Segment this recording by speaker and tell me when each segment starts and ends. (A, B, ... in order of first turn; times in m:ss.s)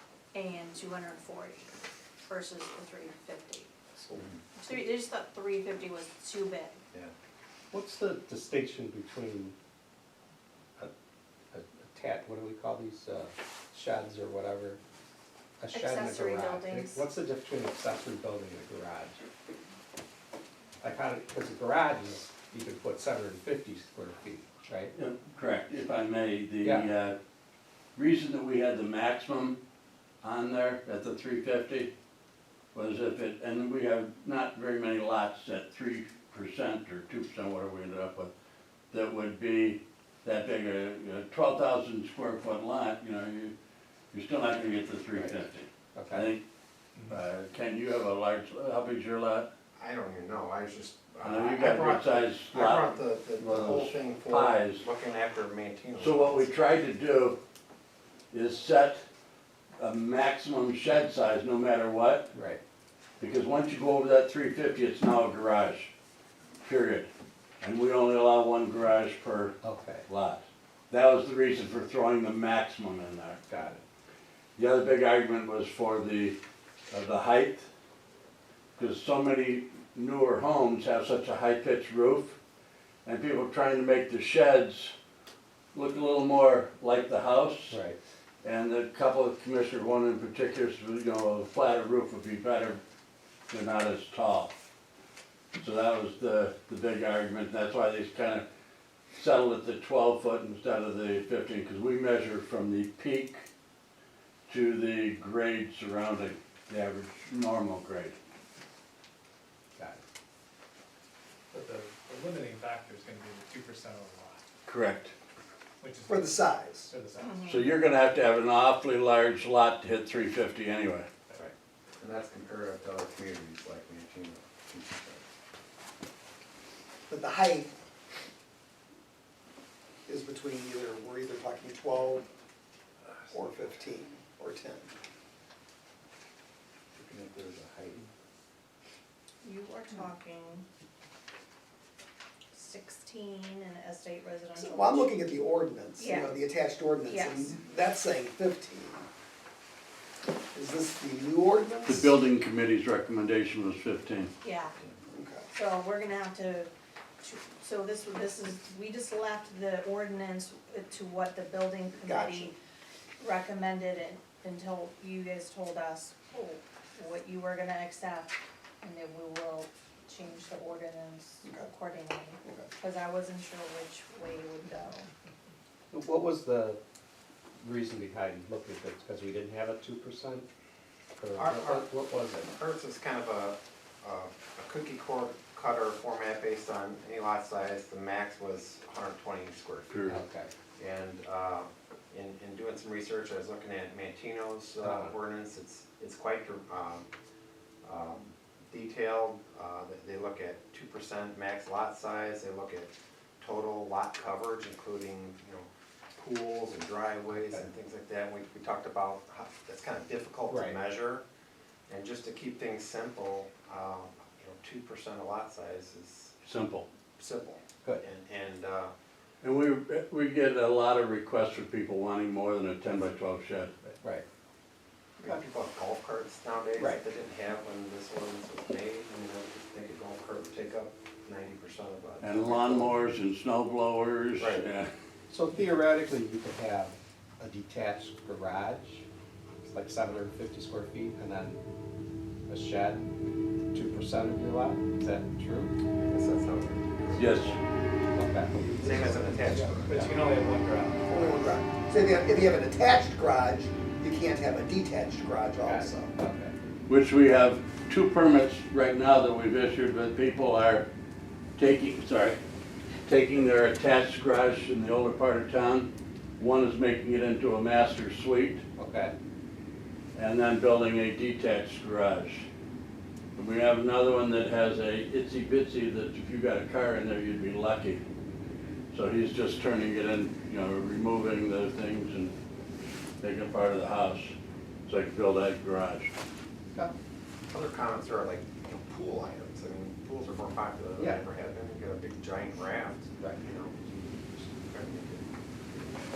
0:00.3-0:01.7 A
0:02.3-0:03.7 A
0:04.1-0:04.7 B
0:04.6-0:06.8 A
0:07.7-0:09.5 B
0:11.5-0:14.8 B
0:15.6-0:19.2 B
0:15.7-0:17.0 A
0:20.8-0:24.9 B
0:24.9-0:27.2 C
0:26.6-0:26.9 B
0:28.0-0:29.6 C
0:30.2-0:31.9 C
0:32.7-0:38.3 C
0:38.9-0:43.5 C
0:44.1-0:46.4 C
0:45.1-0:45.4 B
0:46.0-0:46.3 B
0:47.1-0:49.5 C
0:49.8-0:56.5 D
0:51.2-0:54.9 C
0:56.0-0:57.4 C
0:58.3-0:59.0 C
0:59.8-1:02.3 C
1:02.3-1:02.6 B
1:03.2-1:05.9 C
1:06.6-1:07.1 C
1:07.6-1:13.4 C
1:09.6-1:10.1 B
1:13.5-1:13.8 B
1:14.6-1:16.4 C
1:16.9-1:17.7 C
1:18.8-1:22.4 C
1:23.0-1:24.9 C
1:25.7-1:27.8 C
1:27.7-1:28.0 B
1:28.4-1:32.8 C
1:33.5-1:34.5 C
1:35.6-1:38.4 C
1:39.1-1:43.4 C
1:44.5-1:48.2 C
1:51.5-1:54.4 E
1:54.7-1:55.1 C
1:55.8-1:57.4 E
1:56.1-1:56.9 F
1:57.2-1:57.7 A
1:57.4-2:01.1 C
2:01.4-2:05.2 D
2:07.1-2:07.7 F
2:10.0-2:12.2 F
2:13.1-2:13.6 D
2:13.3-2:14.9 F
2:16.9-2:18.1 D
2:19.4-2:20.7 A
2:22.5-2:25.1 A
2:24.5-2:29.0 F
2:26.0-2:26.3 A
2:27.0-2:27.6 A
2:30.5-2:32.1 F
2:31.8-2:34.3 C
2:34.4-2:34.7 A
2:35.1-2:35.4 F
2:35.5-2:36.7 A
2:37.2-2:42.5 A
2:42.0-2:42.5 F
2:43.2-2:55.1 A
2:51.4-2:51.7 F
2:52.4-2:52.7 F
2:55.9-2:56.8 B
2:57.6-3:00.5 B
3:01.2-3:02.5 B
3:01.4-3:01.9 D
3:02.4-3:10.1 D
3:09.9-3:10.2 C
3:10.1-3:10.5 B
3:10.8-3:17.1 D
3:14.8-3:15.1 B
3:17.8-3:31.2 D
3:27.3-3:27.6 B
3:30.5-3:30.8 B
3:31.9-3:36.4 D
3:36.4-3:36.9 C
3:37.2-3:38.9 D
3:39.4-3:43.7 C
3:45.2-3:53.0 D
3:46.8-3:47.0 B
3:52.2-3:54.9 C
3:54.4-3:54.6 D
3:55.3-3:59.0 B
3:59.7-4:01.6 B
4:02.5-4:03.1 B
4:03.7-4:05.8 B
4:05.9-4:07.6 D
4:07.1-4:07.6 C
4:08.0-4:10.1 B
4:08.6-4:09.9 F
4:08.8-4:10.1 D
4:09.9-4:11.2 E
4:11.1-4:16.1 F
4:15.6-4:16.6 B
4:16.9-4:20.9 C
4:21.6-4:22.4 C
4:23.1-4:28.6 C
4:28.8-4:29.1 B
4:30.1-4:32.4 C
4:33.3-4:38.0 C
4:38.9-4:42.3 C
4:43.2-4:44.3 C
4:44.8-4:46.1 C
4:47.5-4:56.0 D
4:51.0-4:51.2 B
4:53.1-4:53.4 B